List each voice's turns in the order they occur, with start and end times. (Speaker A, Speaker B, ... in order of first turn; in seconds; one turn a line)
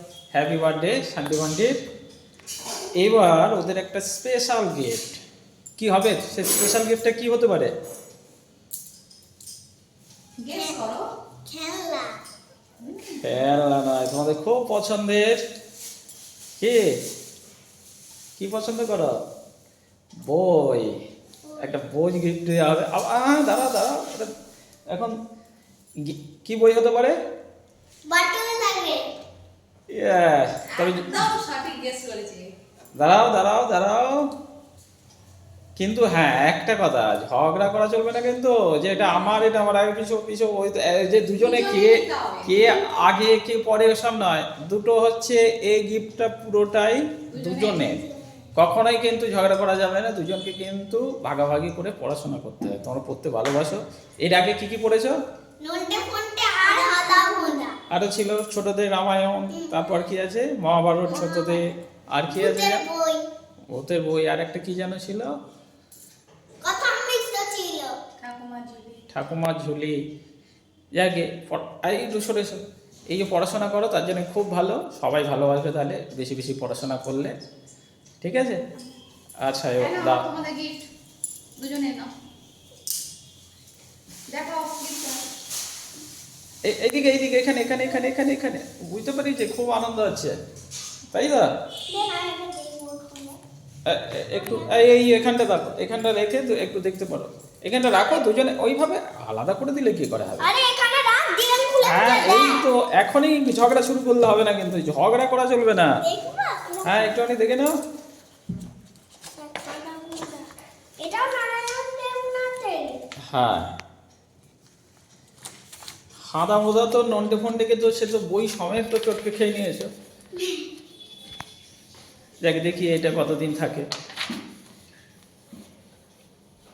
Speaker A: 0.3-1.7
Speaker A: 3.0-5.2
Speaker A: 5.8-7.7
Speaker B: 10.4-11.1
Speaker C: 10.5-10.8
Speaker C: 11.4-12.2
Speaker B: 12.9-13.2
Speaker A: 13.2-15.4
Speaker A: 16.6-16.8
Speaker A: 18.4-19.1
Speaker A: 20.3-20.9
Speaker C: 21.4-21.7
Speaker A: 21.6-24.3
Speaker A: 26.1-27.1
Speaker C: 28.1-29.0
Speaker A: 29.9-31.1
Speaker B: 30.7-32.5
Speaker A: 33.0-34.2
Speaker A: 35.8-48.0
Speaker B: 41.4-42.6
Speaker B: 47.3-47.9
Speaker C: 47.8-48.2
Speaker A: 48.6-55.2
Speaker C: 55.6-57.7
Speaker B: 56.6-57.6
Speaker A: 57.9-62.8
Speaker C: 61.1-61.6
Speaker C: 62.3-63.2
Speaker A: 63.7-65.3
Speaker C: 66.6-67.9
Speaker B: 68.2-69.0
Speaker A: 69.1-70.0
Speaker A: 71.0-77.3
Speaker A: 78.2-78.6
Speaker A: 79.4-80.3
Speaker B: 79.8-80.8
Speaker B: 81.6-82.1
Speaker B: 84.3-85.2
Speaker A: 86.7-90.3
Speaker A: 91.1-91.5
Speaker C: 91.9-93.4
Speaker A: 93.9-100.5
Speaker C: 94.3-94.9
Speaker C: 97.9-98.2
Speaker C: 100.4-102.6
Speaker A: 101.8-105.9
Speaker C: 106.0-107.1
Speaker A: 106.8-107.7
Speaker C: 109.4-110.5
Speaker C: 111.0-113.0
Speaker A: 113.3-113.7
Speaker A: 116.3-119.9
Speaker C: 120.4-120.7
Speaker A: 122.4-123.9